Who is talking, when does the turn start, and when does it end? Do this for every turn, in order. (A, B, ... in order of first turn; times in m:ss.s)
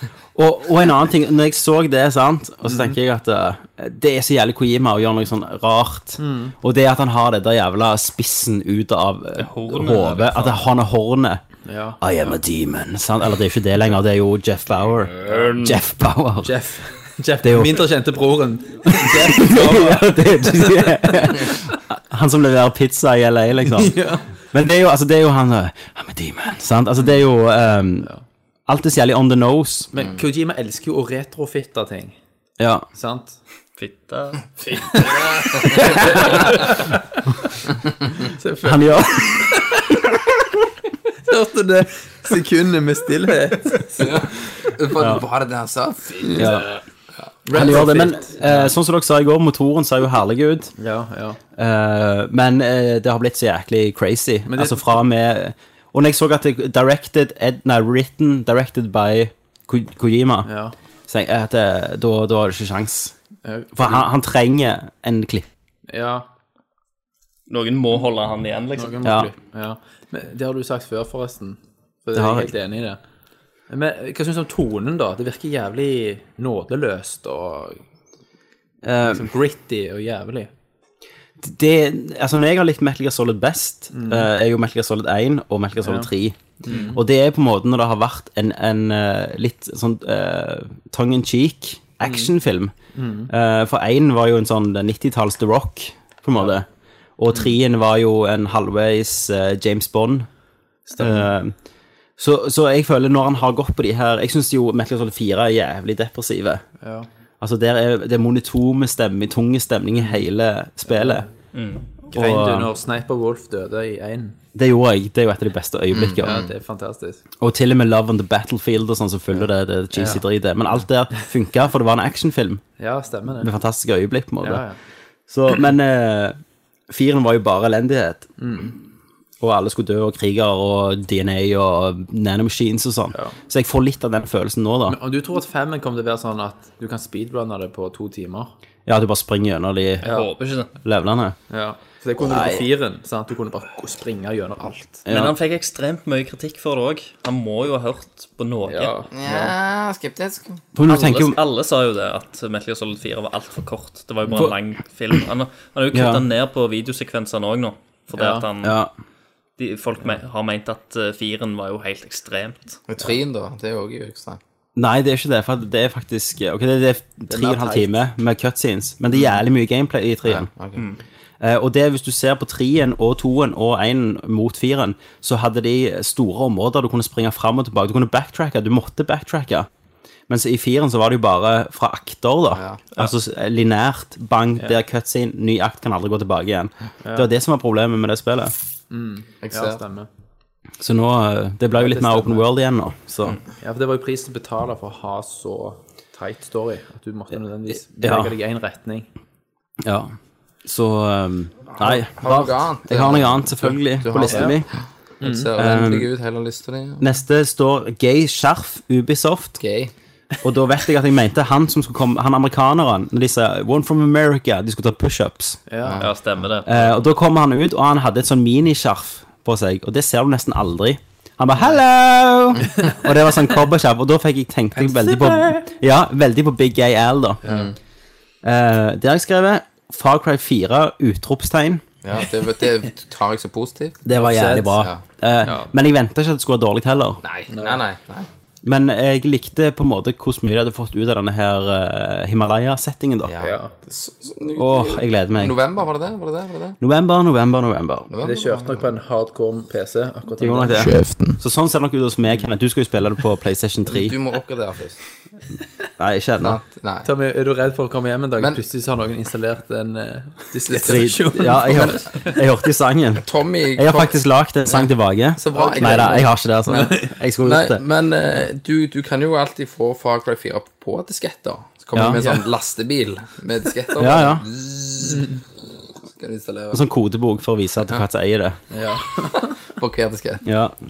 0:00.3-0:11.4 A
0:02.6-0:03.0 B
0:06.2-0:06.5 B
0:09.4-0:10.7 C
0:11.6-0:12.0 B
0:12.0-0:16.5 A
0:15.2-0:15.8 D
0:16.4-0:21.6 B
0:17.4-0:17.9 A
0:18.8-0:24.0 A
0:23.7-0:24.3 B
0:24.5-0:28.1 A
0:28.7-0:29.9 A
0:29.9-0:32.2 B
0:32.6-0:32.8 A
0:32.9-0:33.4 B
0:33.8-0:36.5 C
0:34.9-0:37.0 B
0:35.3-0:35.8 D
0:38.2-0:40.0 B
0:38.6-0:39.6 A
0:41.2-0:44.0 B
0:44.0-0:46.6 D
0:45.0-0:45.2 A
0:46.3-0:46.7 A
0:47.4-0:48.7 B
0:47.5-0:50.7 A
0:50.8-0:51.4 B
0:51.6-1:00.5 A
0:54.5-0:55.0 B
1:00.4-1:00.7 B
1:01.1-1:03.1 A
1:03.4-1:04.0 B
1:03.7-1:05.5 A
1:05.9-1:06.3 B
1:07.5-1:09.0 C
1:08.8-1:13.0 B
1:09.0-1:09.3 A
1:12.1-1:12.5 A
1:13.7-1:17.8 B
1:18.8-1:19.2 A
1:19.0-1:20.5 B
1:21.4-1:32.7 A
1:23.9-1:24.3 B
1:25.8-1:26.1 B
1:26.6-1:27.0 B
1:32.0-1:32.3 B
1:32.9-1:33.3 B
1:33.3-1:36.7 A
1:37.2-1:40.3 A
1:40.9-1:41.3 B
1:41.0-1:41.5 A
1:42.2-1:46.6 A
1:46.8-1:47.1 B
1:47.4-1:51.2 A
1:50.8-1:51.3 B
1:51.5-1:51.8 C
1:52.1-1:52.7 A
1:52.1-1:54.4 B
1:54.5-1:56.4 A
1:55.9-1:56.5 D
1:56.2-1:57.2 B
1:57.4-2:02.6 A
1:59.3-2:00.2 B
2:02.8-2:03.5 B
2:03.4-2:04.6 A
2:04.4-2:04.8 B
2:05.3-2:06.4 A
2:06.9-2:08.3 A
2:08.4-2:08.8 B
2:09.4-2:15.0 A
2:14.9-2:18.5 B
2:18.9-2:20.1 A
2:20.0-2:20.3 B
2:20.0-2:20.7 C
2:20.8-2:21.4 A
2:21.5-2:25.0 B
2:22.2-2:22.6 A
2:25.0-2:25.3 A
2:25.1-2:28.9 C
2:28.6-2:29.5 B
2:29.1-2:30.6 D
2:30.7-2:31.4 A
2:30.8-2:38.8 C
2:34.3-2:34.6 A
2:35.9-2:36.2 A
2:38.1-2:38.4 B
2:38.6-2:38.9 A
2:39.6-2:42.8 C
2:42.9-2:44.4 D
2:44.8-2:50.5 A
2:47.3-2:48.0 B
2:50.2-2:50.8 D
2:51.4-2:59.7 A
3:00.3-3:08.5 A
3:02.5-3:02.8 D
3:07.0-3:07.3 B
3:08.9-3:10.1 B
3:09.4-3:09.8 D
3:10.8-3:13.4 A
3:11.7-3:12.5 B
3:13.6-3:19.1 B
3:18.0-3:18.3 A
3:19.8-3:20.1 A
3:20.6-3:24.7 A
3:21.7-3:27.1 D
3:24.3-3:24.6 B
3:25.2-3:25.5 B
3:25.5-3:26.1 A
3:27.0-3:29.6 A
3:29.6-3:29.9 D
3:30.4-3:35.6 A
3:35.7-3:36.0 B
3:35.8-3:36.1 D
3:36.0-3:37.0 C
3:36.6-3:47.4 A
3:44.8-3:45.6 B
3:47.4-3:47.7 B
3:47.4-3:47.7 D
3:48.4-3:51.8 A
3:52.0-3:54.0 D
3:54.0-3:57.2 A
3:54.1-3:54.9 B
3:54.7-3:55.0 D
3:55.4-3:55.7 B
3:57.2-3:58.3 D
3:57.5-3:57.8 B
3:58.6-4:03.4 A
4:03.2-4:06.8 D
4:03.4-4:03.7 B
4:04.6-4:05.6 A
4:06.8-4:08.1 A
4:08.1-4:08.9 D
4:08.2-4:10.9 B
4:10.4-4:14.2 A
4:10.7-4:11.4 D
4:13.9-4:15.0 D
4:16.0-4:16.6 A
4:16.4-4:17.1 D
4:17.0-4:22.4 B
4:20.7-4:21.0 D
4:20.7-4:27.8 A
4:21.6-4:22.0 D
4:23.2-4:24.2 D
4:24.7-4:35.4 D
4:25.5-4:27.1 B
4:31.9-4:32.2 A
4:34.0-4:34.4 A
4:35.0-4:35.4 B
4:36.0-4:36.8 D
4:36.7-4:38.6 A
4:38.7-4:39.5 B
4:39.7-4:40.4 D
4:40.4-4:40.7 A